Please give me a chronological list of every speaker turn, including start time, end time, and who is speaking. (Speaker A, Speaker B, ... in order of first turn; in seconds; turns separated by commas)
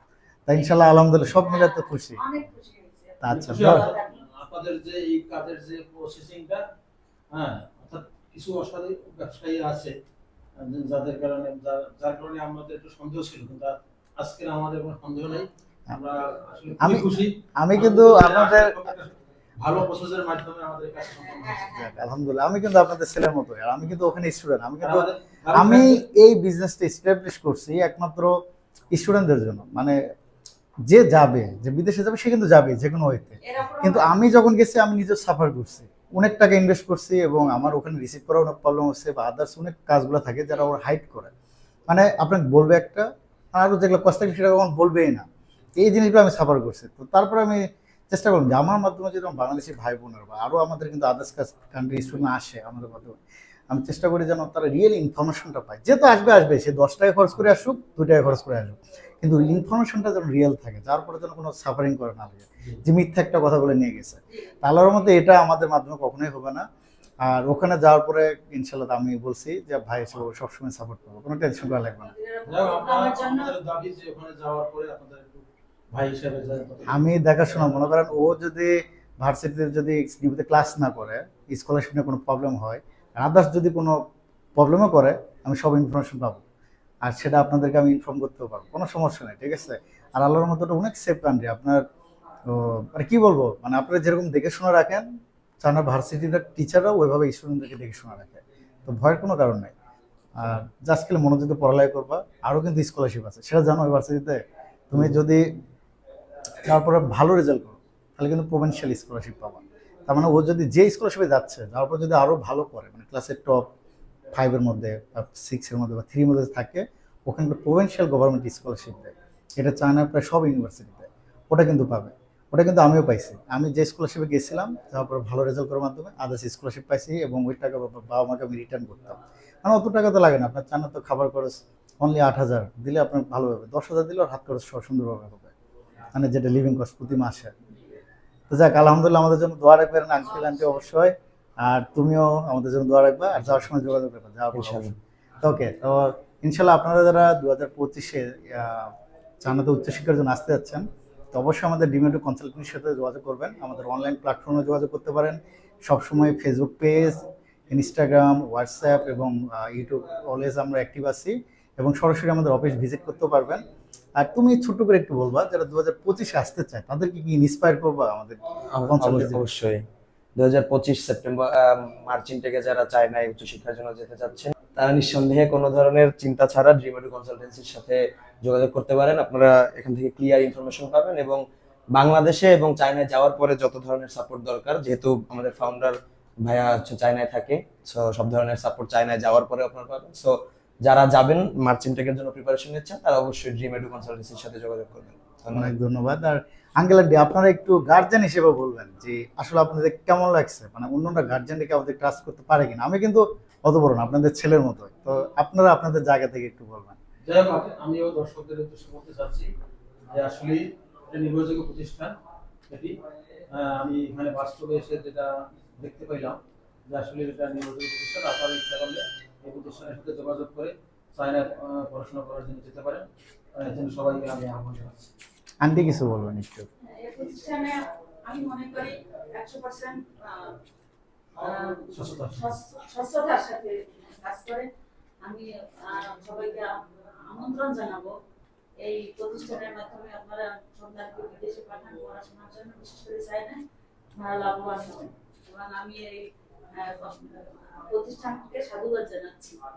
Speaker A: 0.5-2.2, Speaker B: 1.4-4.3, Speaker A: 3.2-3.9, Speaker C: 3.3-6.6, Speaker C: 7.3-9.9, Speaker C: 10.6-21.7, Speaker A: 16.8-18.9, Speaker B: 21.2-21.9, Speaker A: 21.6-28.3, Speaker C: 24.8-26.0, Speaker A: 28.9-30.0, Speaker A: 30.9-41.3, Speaker B: 33.4-34.1, Speaker A: 41.9-45.2, Speaker A: 45.8-53.2, Speaker A: 53.7-66.6, Speaker A: 67.2-72.1, Speaker B: 71.8-73.5, Speaker C: 72.5-77.7, Speaker A: 76.9-84.0, Speaker A: 84.6-86.4, Speaker A: 87.0-91.8, Speaker A: 92.5-95.0, Speaker A: 95.6-99.7, Speaker A: 100.4-105.5, Speaker A: 106.6-113.7, Speaker A: 114.3-135.5, Speaker A: 136.1-137.5, Speaker A: 138.5-163.6, Speaker D: 144.5-144.9, Speaker A: 164.2-169.4, Speaker D: 168.7-169.8, Speaker D: 170.4-181.4, Speaker D: 181.9-190.3, Speaker D: 190.8-195.7, Speaker A: 195.5-207.0, Speaker C: 207.2-209.5, Speaker C: 210.1-212.2, Speaker C: 212.7-213.0, Speaker C: 213.5-225.1, Speaker A: 225.6-226.7, Speaker B: 226.9-230.6, Speaker B: 231.4-234.7, Speaker C: 231.9-232.5, Speaker B: 235.2-238.1, Speaker B: 238.8-243.6, Speaker B: 244.2-249.6